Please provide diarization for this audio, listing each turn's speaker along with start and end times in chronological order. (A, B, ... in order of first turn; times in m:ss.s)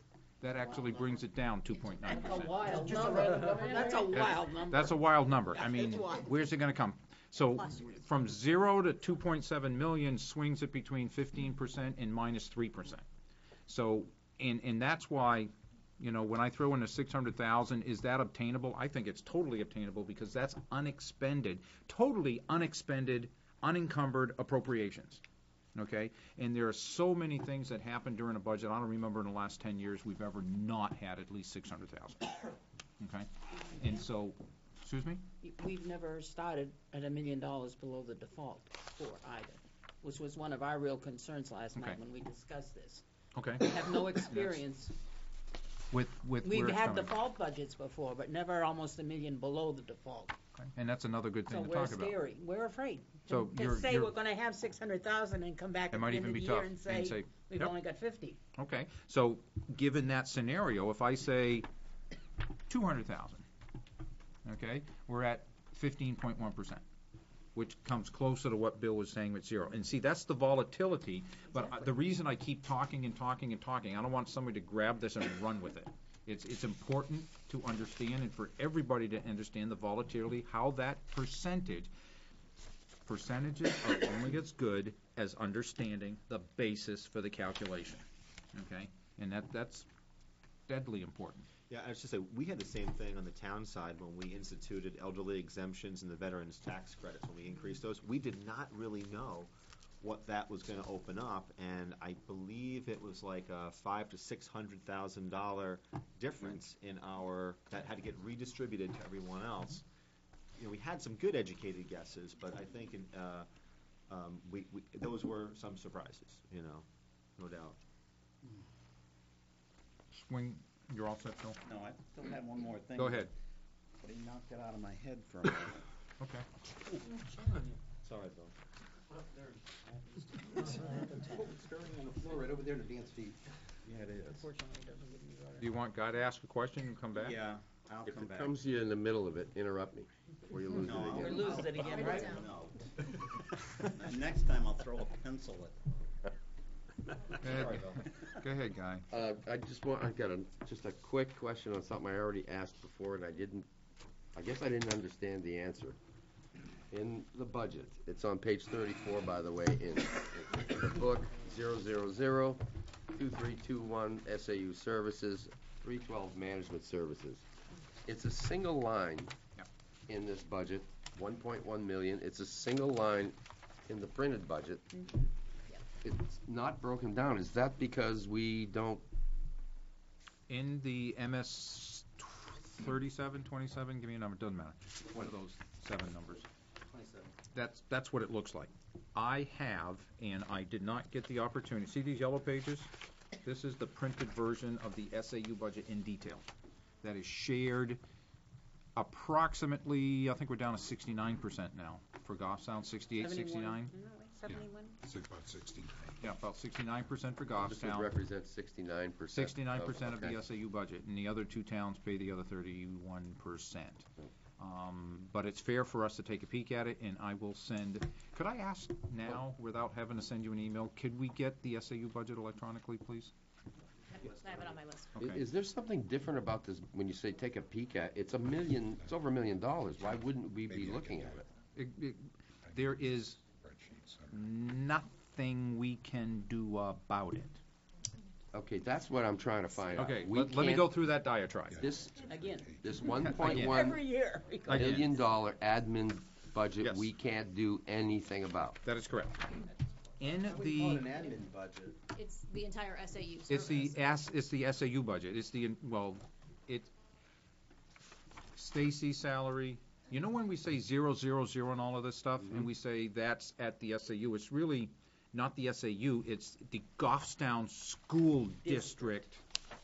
0:00.4-0:02.7 A
0:02.1-0:06.2 B
0:02.9-0:04.0 C
0:04.1-0:13.0 A
0:07.6-0:08.0 B
0:13.7-0:25.2 A
0:25.7-0:32.4 A
0:33.0-0:35.2 A
0:35.4-0:43.0 B
0:43.4-0:44.6 A
0:43.6-0:44.9 B
0:45.9-0:47.2 A
0:46.4-0:50.4 B
0:50.6-0:52.2 A
0:51.4-0:58.4 B
0:53.3-0:54.1 A
0:55.9-0:57.7 A
0:58.6-1:01.7 A
1:02.7-1:03.4 A
1:04.4-1:06.8 A
1:07.6-1:21.9 A
1:23.1-1:29.9 A
1:30.7-1:31.5 A
1:31.7-1:49.8 D
1:50.6-1:53.5 D
1:54.1-1:57.8 D
2:00.1-2:01.6 A
2:01.6-2:03.3 E
2:03.0-2:03.3 A
2:04.0-2:05.8 E
2:06.2-2:06.4 A
2:08.0-2:08.5 D
2:10.5-2:13.4 F
2:14.2-2:15.7 B
2:15.6-2:17.4 A
2:17.1-2:18.6 E
2:18.0-2:21.8 G
2:20.8-2:22.7 E
2:21.1-2:22.4 B
2:23.9-2:25.8 E
2:27.4-2:29.1 A
2:27.4-2:28.0 D
2:29.1-2:33.7 G
2:34.3-2:36.0 G
2:36.9-2:47.4 G
2:48.0-2:49.3 G
2:50.1-2:54.9 G
2:56.0-2:59.0 G
3:00.5-3:06.4 A
3:06.8-3:07.3 F
3:07.5-3:12.9 A
3:13.4-3:16.4 A
3:17.0-3:18.0 A
3:19.0-3:23.9 A
3:23.2-3:25.0 B
3:24.4-3:26.2 H
3:26.2-3:28.1 A
3:27.6-3:30.4 G
3:29.3-3:34.1 A
3:34.6-3:43.3 A
3:44.1-3:44.8 F
3:44.2-3:45.2 C
3:45.2-3:51.4 G
3:50.7-3:51.4 H
3:51.7-3:53.4 A
3:52.7-3:54.4 H
3:54.3-3:57.6 A
3:58.5-4:01.1 G
4:00.0-4:01.8 A
4:01.7-4:02.9 H
4:01.8-4:02.1 G
4:02.2-4:05.1 B
4:02.8-4:04.1 G
4:03.2-4:03.9 A
4:04.6-4:08.8 G
4:04.7-4:05.0 A
4:06.8-4:07.1 A
4:08.8-4:09.6 A
4:10.2-4:11.1 A
4:10.2-4:12.0 F
4:12.1-4:14.2 C
4:13.5-4:16.9 A
4:18.6-4:29.4 A
4:22.4-4:22.7 G
4:28.6-4:29.1 B